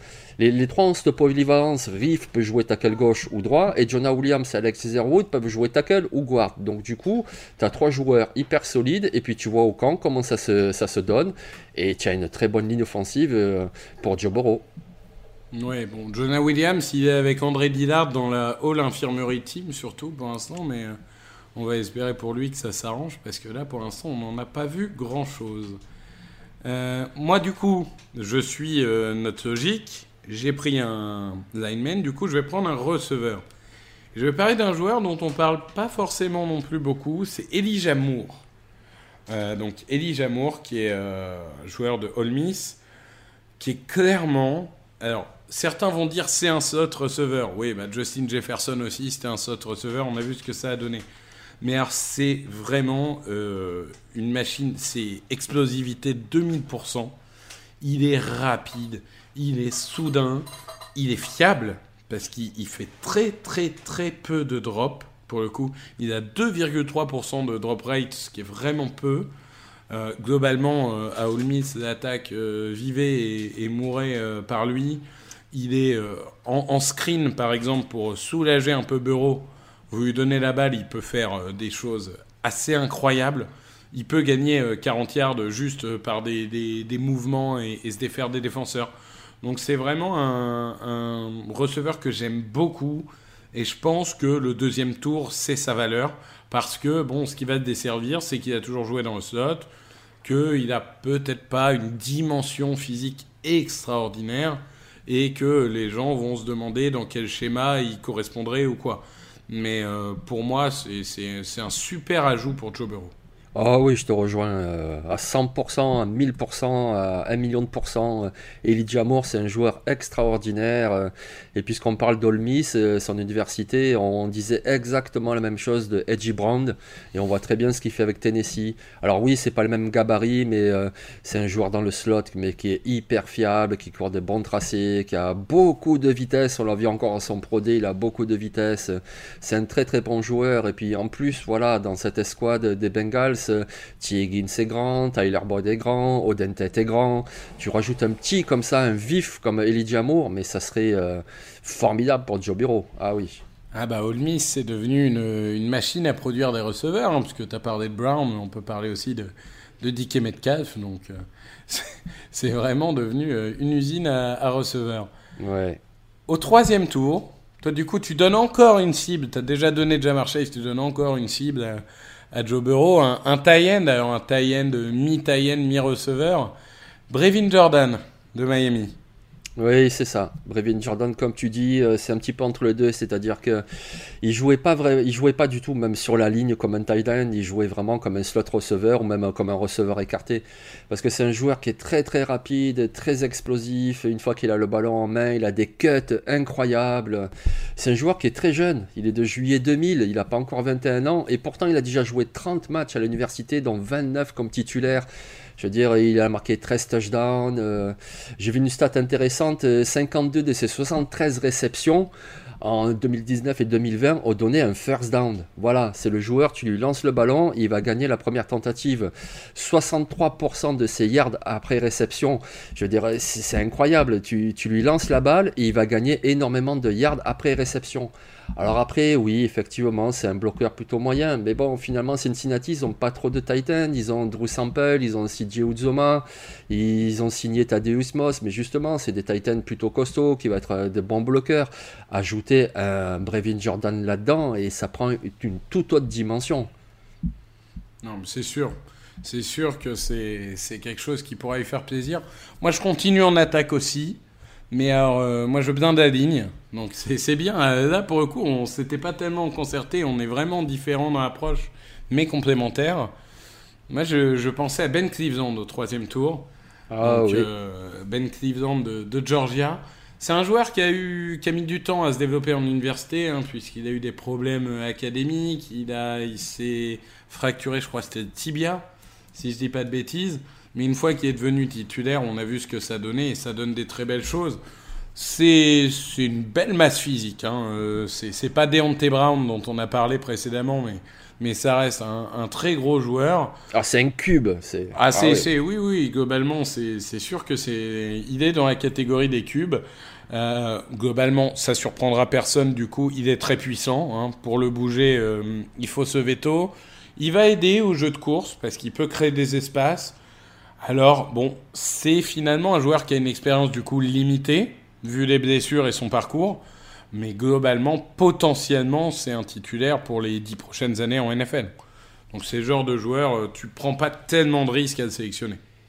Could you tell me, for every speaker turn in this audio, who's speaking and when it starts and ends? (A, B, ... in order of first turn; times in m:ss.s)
0:00.4-0:14.7 A
0:15.5-0:21.0 B
0:21.6-0:25.8 B
0:26.6-0:33.4 B
0:34.2-0:38.4 B
0:39.3-0:42.8 B
0:43.6-0:51.0 B
0:51.6-0:57.2 B
0:57.8-1:09.3 B
1:09.9-1:28.9 B
1:29.4-1:39.7 B
1:40.2-1:53.1 B
1:53.6-2:33.4 A
2:33.7-2:41.2 B
2:41.7-2:45.1 B
2:45.4-2:45.8 A
2:46.3-2:56.5 B
2:57.1-2:59.0 B
2:59.6-3:03.6 A
3:04.2-4:06.7 A
4:08.0-4:14.2 B
4:14.7-4:23.1 B
4:23.9-4:26.5 B
4:26.9-4:27.5 A
4:27.0-4:44.6 B
4:45.2-4:53.5 B
4:53.7-4:55.5 A
4:55.0-5:10.2 B
5:10.8-5:21.7 B
5:22.3-5:25.6 B